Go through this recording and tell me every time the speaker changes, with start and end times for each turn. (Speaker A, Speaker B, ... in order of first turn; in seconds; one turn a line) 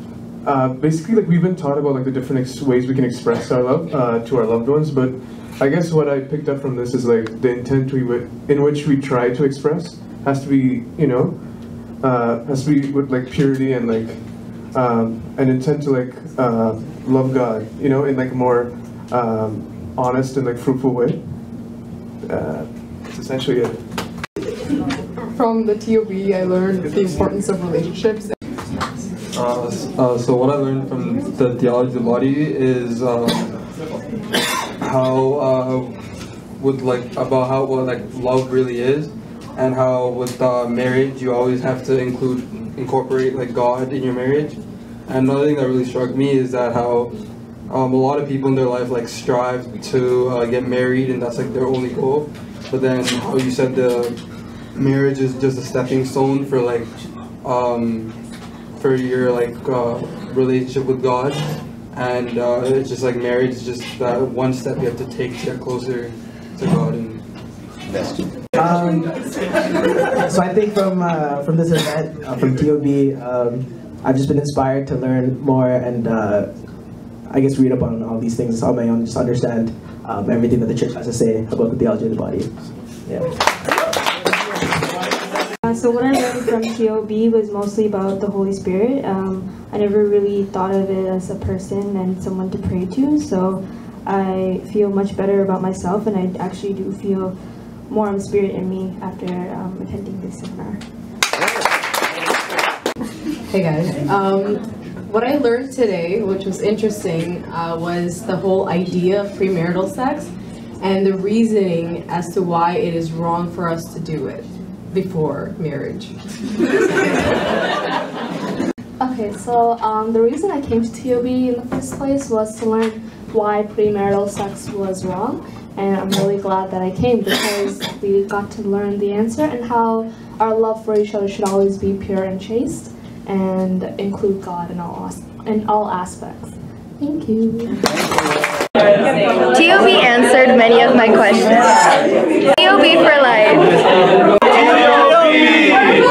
Speaker A: 0.4-21.3
Speaker A: 22.2-23.8
Speaker B: 25.3-28.2
Speaker C: 29.3-33.6
Speaker C: 34.8-36.0
Speaker C: 36.6-54.2
Speaker C: 54.8-56.9
Speaker C: 57.4-58.1
Speaker C: 58.8-61.4
Speaker C: 61.9-67.2
Speaker D: 68.6-69.1
Speaker D: 70.2-83.3
Speaker E: 85.6-97.3
Speaker E: 97.9-100.8
Speaker F: 103.5-116.1
Speaker G: 119.0-136.5
Speaker E: 137.0-137.7
Speaker H: 139.5-141.6
Speaker H: 142.6-143.7